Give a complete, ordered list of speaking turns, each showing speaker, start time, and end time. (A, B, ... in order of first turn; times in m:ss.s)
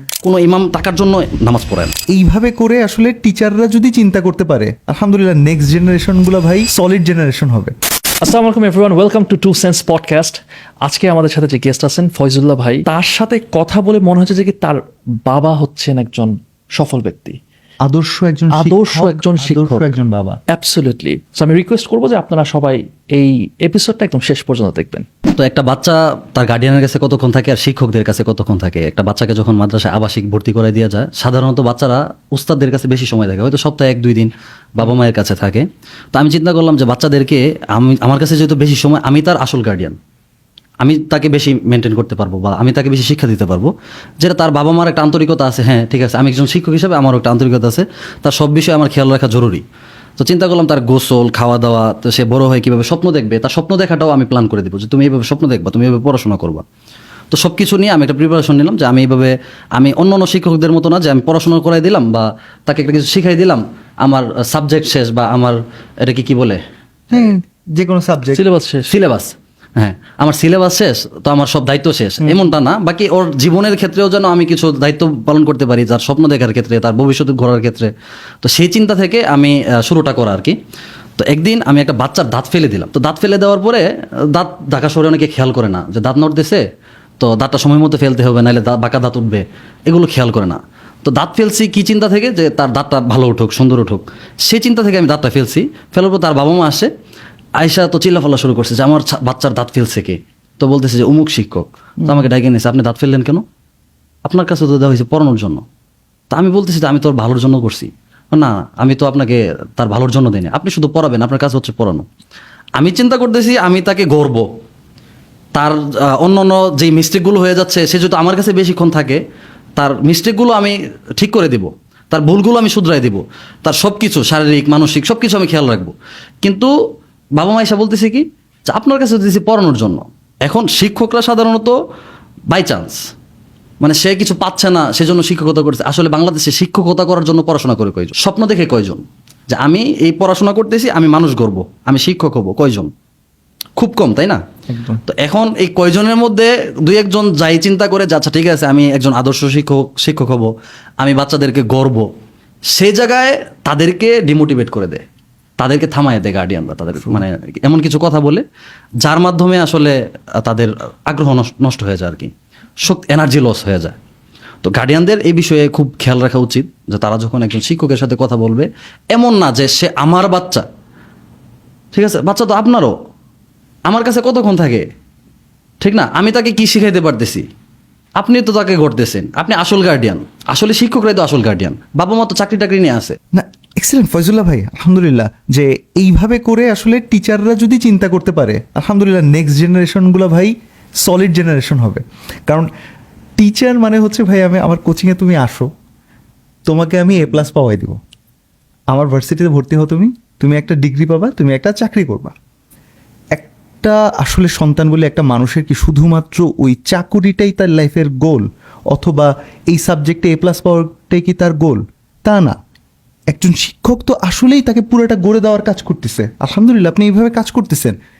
0:00.2-0:01.9 A
0:02.1-0:07.7 B
0:08.2-0:17.4 C
0:17.8-0:20.4 B
0:18.5-0:19.9 C
0:20.5-0:25.0 C
0:25.4-0:40.0 A
0:40.8-0:49.6 A
0:50.2-0:56.6 A
0:57.3-1:06.6 A
1:07.1-1:08.4 B
1:08.3-1:09.0 C
1:08.9-1:20.6 A
1:12.2-1:12.5 B
1:21.2-1:26.6 A
1:27.2-1:36.9 A
1:37.6-1:43.4 A
1:44.2-1:45.6 A
1:46.3-1:52.0 A
1:52.8-1:54.4 A
1:55.5-1:59.2 A
1:59.8-2:06.7 A
2:07.4-2:11.8 A
2:12.5-2:13.0 A
2:13.8-2:22.9 A
2:23.8-2:24.4 A
2:24.7-2:25.0 B
2:25.0-2:32.1 A
2:32.7-2:35.0 A
2:35.6-2:38.4 A
2:39.0-2:44.0 A
2:44.6-2:50.6 A
2:51.9-2:52.9 A
2:53.9-2:54.8 A
2:55.8-2:57.4 A
2:58.2-3:03.2 A
3:03.3-3:10.5 B
3:11.0-3:12.7 B
3:13.4-3:15.7 B
3:16.7-3:18.0 B
3:18.9-3:22.3 B
3:23.3-3:32.6 B
3:33.3-3:38.0 B